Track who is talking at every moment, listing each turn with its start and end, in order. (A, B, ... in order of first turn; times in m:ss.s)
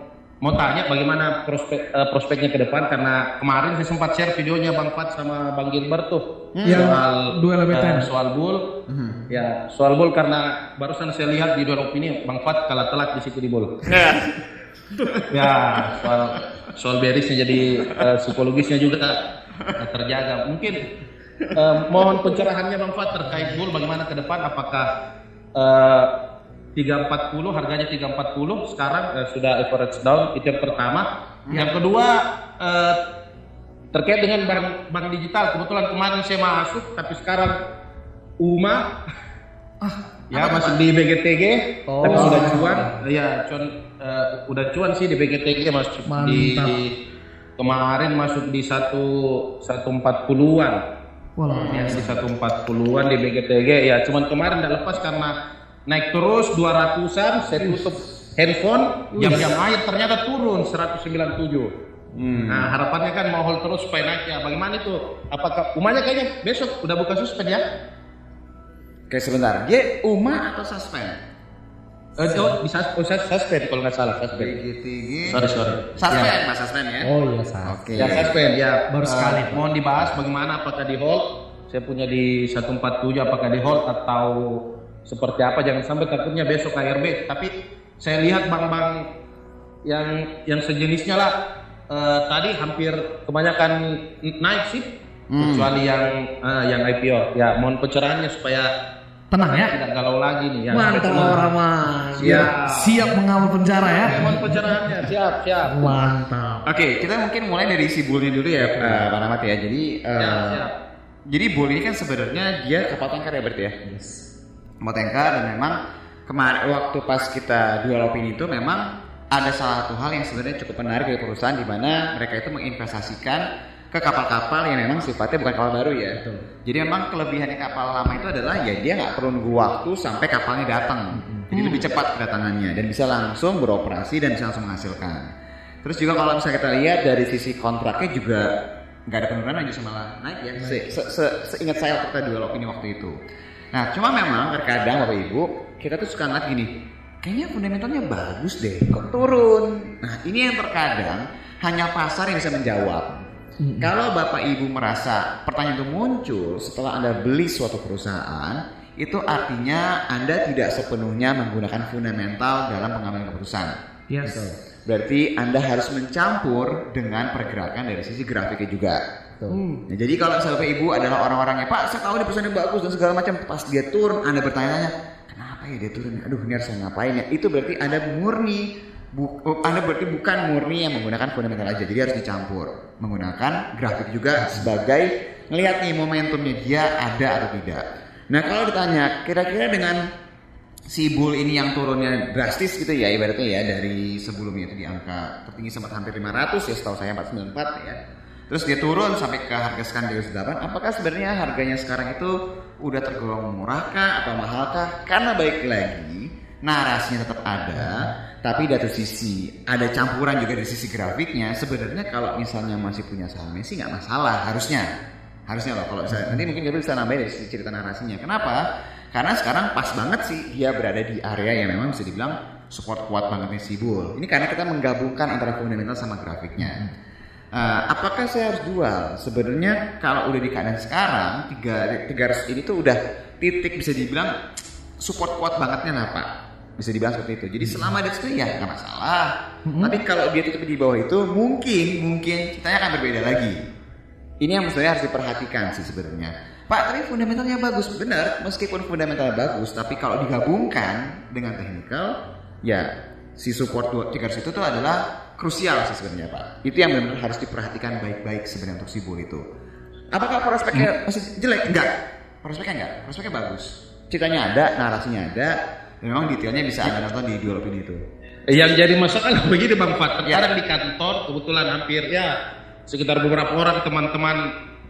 0:00.4-0:08.6 A
0:06.5-0:07.0 B
0:06.6-0:08.1 C
0:08.9-0:09.3 B
0:09.3-0:13.7 A
0:13.8-0:16.1 B
0:15.3-0:19.2 A
0:17.8-0:18.1 B
0:19.8-0:20.8 A
0:21.4-0:22.3 B
0:21.5-0:24.9 A
0:25.6-0:26.1 A
0:26.8-0:33.0 A
0:31.4-0:31.7 B
0:33.9-0:37.6 A
0:38.4-0:38.8 A
0:40.3-0:46.9 A
0:40.3-0:40.8 B
0:41.9-0:42.5 D
0:42.0-0:42.9 C
0:42.1-0:42.7 B
0:46.1-0:46.8 C
0:47.6-0:50.8 A
0:51.4-0:52.1 C
0:51.6-0:52.1 B
0:51.6-0:55.3 A
0:55.9-1:01.7 A
0:57.6-0:57.9 C
0:59.1-0:59.5 C
1:02.1-1:02.8 B
1:02.5-1:07.6 A
1:09.1-1:11.2 B
1:12.2-1:14.6 A
1:14.3-1:17.1 B
1:15.2-1:16.3 A
1:17.0-1:18.1 D
1:17.6-1:18.3 B
1:17.9-1:29.0 A
1:18.9-1:19.6 D
1:29.8-1:31.3 A
1:31.9-1:38.7 A
1:35.3-1:35.7 B
1:39.3-1:39.7 C
1:39.6-1:41.4 A
1:40.7-1:44.6 C
1:42.2-1:42.5 B
1:42.2-1:43.1 A
1:44.0-1:46.0 A
1:45.7-1:46.6 C
1:46.6-1:50.7 B
1:48.6-1:49.0 D
1:50.2-1:50.7 A
1:51.3-1:53.8 B
1:53.9-1:54.2 D
1:54.8-2:15.3 B
2:06.1-2:06.4 D
2:11.1-2:11.5 D
2:15.8-2:18.5 B
2:19.1-2:23.2 B
2:20.6-2:20.8 D
2:23.7-2:26.7 B
2:27.2-2:33.3 B
2:33.6-2:33.9 C
2:33.8-2:43.8 B
2:44.1-2:44.4 C
2:44.2-2:44.6 D
2:44.8-2:49.0 B
2:49.5-2:49.8 C
2:49.9-3:10.0 B
3:10.9-3:34.9 B
3:27.8-3:28.1 D
3:35.5-3:38.6 B
3:36.1-3:36.4 D
3:39.1-3:46.8 B
3:47.5-3:54.3 B
3:55.0-4:03.6 B
3:59.6-4:00.0 C
4:04.4-4:19.4 B
4:20.1-4:21.9 B
4:22.4-4:28.0 B
4:28.5-4:32.3 A
4:30.2-4:30.5 B
4:32.9-4:34.4 A